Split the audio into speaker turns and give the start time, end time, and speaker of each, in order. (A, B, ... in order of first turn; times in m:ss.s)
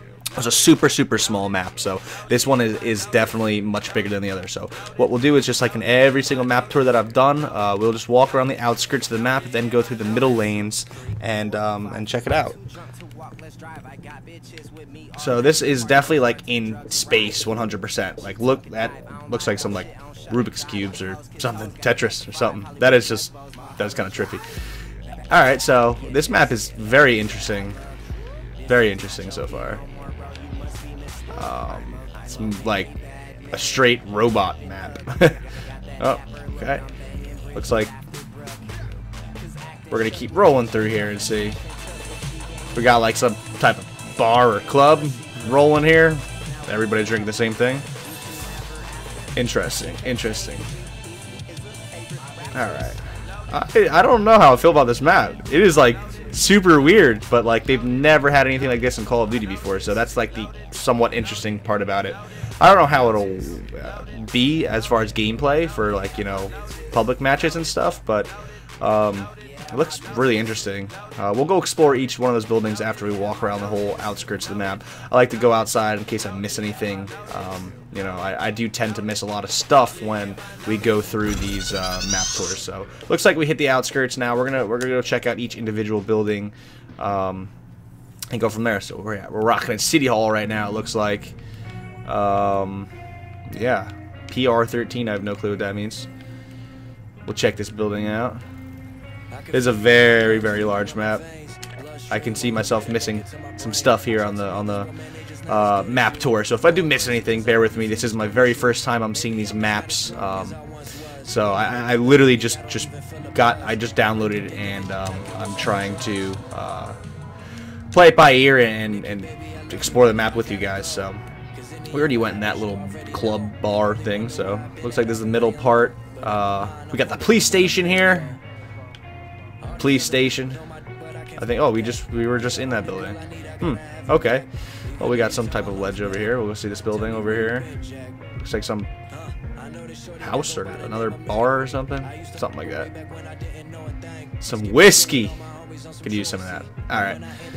0:00.4-0:12.6 A
0:15.2-0:24.4 A
0:25.3-0:27.8 A
0:28.7-0:29.8 A
0:31.3-0:32.9 A
0:33.5-0:35.4 A
0:36.0-0:36.8 A
0:37.5-0:37.9 A
0:39.9-0:41.6 A
0:42.8-0:47.9 A
0:49.4-0:50.7 A
0:52.5-1:27.5 A
1:28.3-1:31.4 A
1:32.1-1:32.9 A
1:33.5-1:36.1 A
1:37.3-1:38.4 A
1:39.5-1:41.3 A
1:42.1-1:44.9 A
1:45.5-1:50.6 A
1:51.2-1:57.0 A
1:57.9-2:01.2 A
2:01.9-2:08.4 A
2:09.8-2:10.6 A
2:11.4-2:14.5 A
2:15.0-2:17.7 A
2:18.4-2:18.9 A
2:20.2-2:22.9 A
2:24.4-2:25.4 A
2:26.0-2:27.2 A